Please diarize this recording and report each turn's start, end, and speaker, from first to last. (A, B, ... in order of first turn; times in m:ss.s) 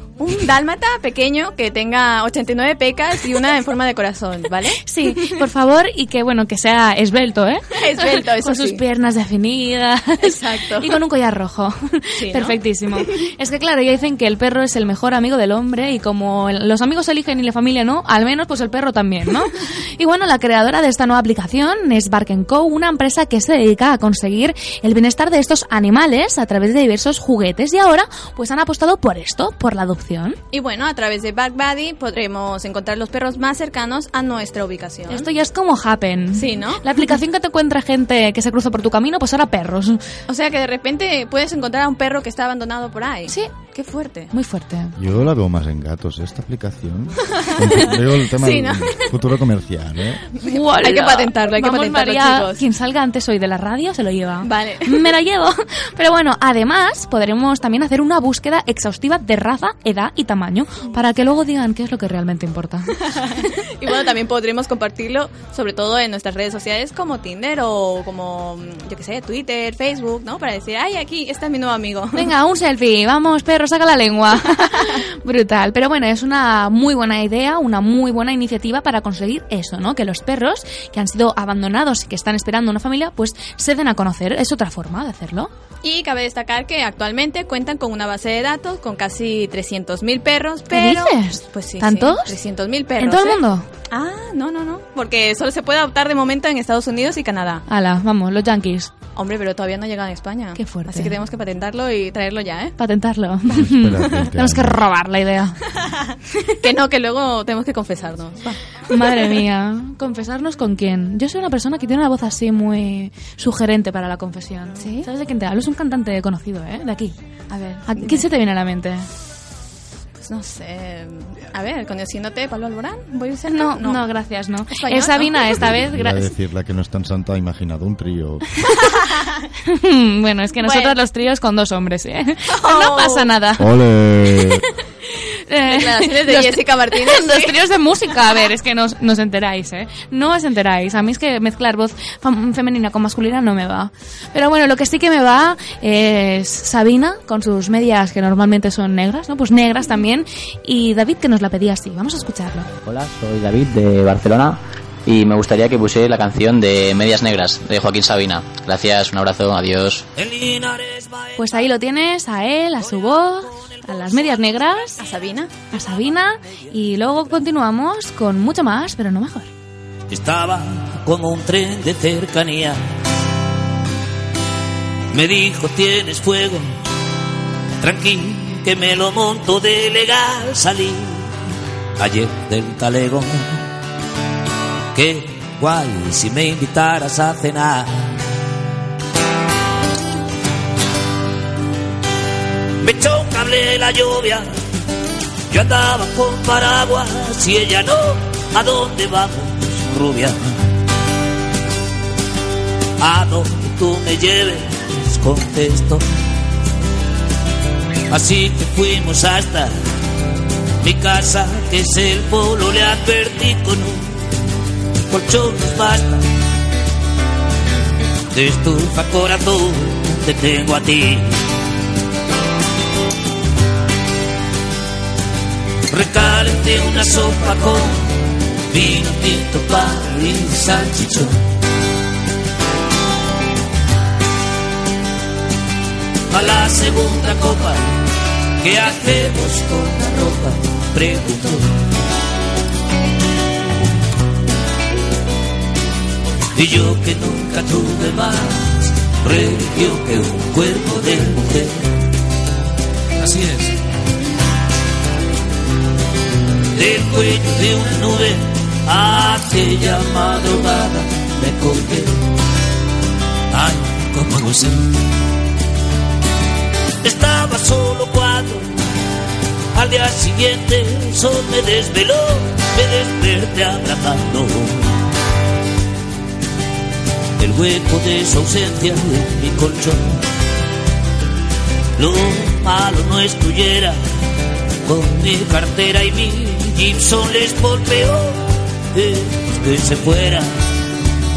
0:00.2-0:05.3 A
0:04.8-0:30.4 B
0:07.8-0:08.8 A
0:10.2-0:10.9 A
0:12.2-0:13.1 A
0:30.5-0:35.3 A
0:35.1-0:40.0 B
0:36.3-0:36.8 A
0:40.3-0:44.3 A
0:43.3-0:43.5 B
0:44.3-0:44.9 B
0:45.0-0:50.2 C
0:47.4-0:49.0 A
0:50.4-0:52.6 A
0:50.4-1:03.1 B
0:54.4-0:55.0 A
1:03.0-1:12.3 A
1:12.1-1:25.5 B
1:14.6-1:15.0 A
1:25.8-1:37.6 A
1:30.7-1:32.4 B
1:33.0-1:33.7 B
1:37.7-1:38.9 B
1:39.1-1:42.7 A
1:40.6-1:41.2 B
1:42.8-1:45.6 B
1:43.5-1:44.8 C
1:46.6-1:49.4 A
1:48.9-1:57.1 B
1:54.8-1:55.1 A
1:57.5-1:58.3 A
1:57.9-1:59.1 B
2:00.2-2:04.0 A
2:03.5-2:06.3 B
2:04.7-2:05.6 A
2:05.6-2:08.4 C
2:09.6-2:13.8 B
2:10.6-2:11.0 A
2:12.5-2:13.3 A
2:13.6-2:14.6 C
2:15.1-2:32.7 B
2:15.7-2:17.6 A
2:32.8-2:40.0 D
2:40.2-2:41.7 E
2:41.4-2:45.0 B
2:45.0-2:45.5 A
2:45.7-2:49.5 B
2:50.1-2:52.8 E
2:55.1-2:56.8 E
2:57.8-3:01.3 E
3:02.0-3:03.6 E
3:04.9-3:08.2 E
3:12.8-3:14.5 E
3:15.5-3:20.6 E
3:23.0-3:26.0 E
3:28.1-3:29.7 E
3:30.8-3:34.2 E
3:35.1-3:36.2 E
3:38.3-3:41.4 E
3:45.9-3:48.1 E
3:48.7-3:51.4 E
3:56.3-3:58.0 E
3:58.6-4:01.8 E
4:06.5-4:11.9 E
4:13.2-4:13.7 E
4:16.7-4:22.2 E
4:23.5-4:25.0 E
4:27.0-4:28.8 E
4:29.7-4:35.0 E
4:37.4-4:40.2 E
4:42.0-4:44.0 E
4:44.8-4:50.6 E